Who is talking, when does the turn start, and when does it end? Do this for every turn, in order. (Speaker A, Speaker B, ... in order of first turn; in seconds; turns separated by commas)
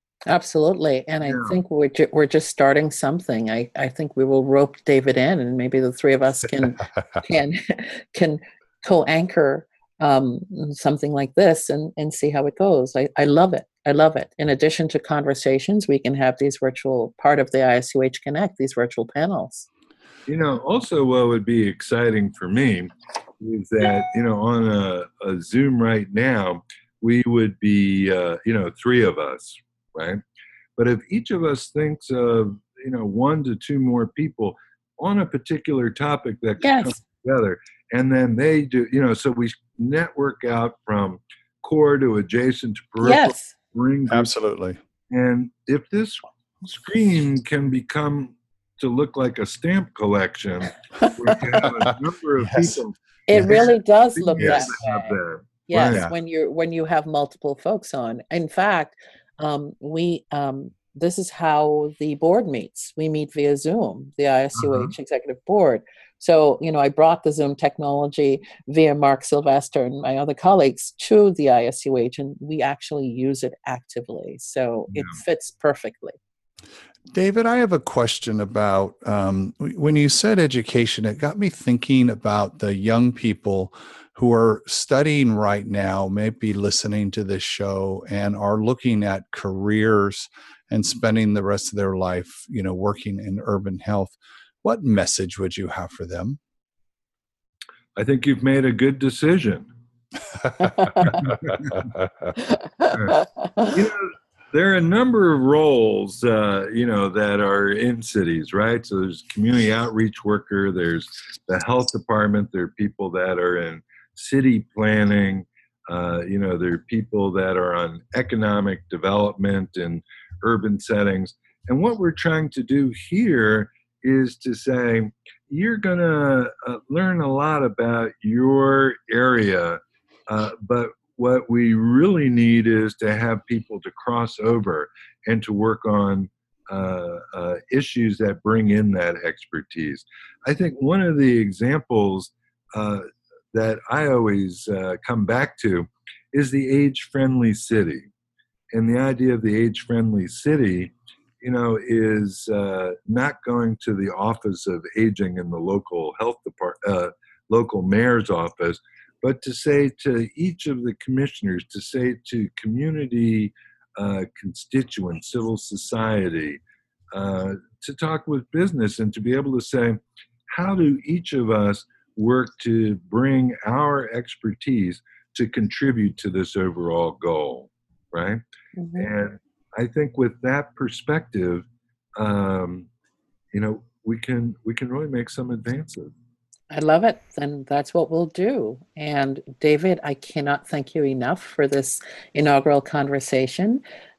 Speaker A: 0.3-19.7, Speaker B: 1.2-1.6, Speaker B: 20.3-30.2, Speaker B: 30.8-44.3, Speaker A: 36.6-37.0, Speaker A: 43.0-43.5, Speaker C: 44.1-44.8, Speaker B: 45.1-56.1, Speaker C: 52.4-52.7, Speaker A: 53.3-76.2, Speaker C: 54.4-54.7, Speaker B: 64.5-64.9, Speaker B: 74.9-75.2, Speaker C: 77.1-96.4, Speaker B: 98.0-99.7, Speaker A: 100.8-101.1, Speaker B: 101.1-101.7, Speaker A: 102.6-103.8, Speaker B: 102.9-103.2, Speaker B: 103.7-148.1, Speaker B: 148.7-166.6, Speaker B: 167.1-178.4, Speaker A: 178.8-179.1, Speaker B: 179.0-181.7, Speaker B: 182.2-182.9, Speaker B: 183.5-186.1, Speaker A: 186.7-193.8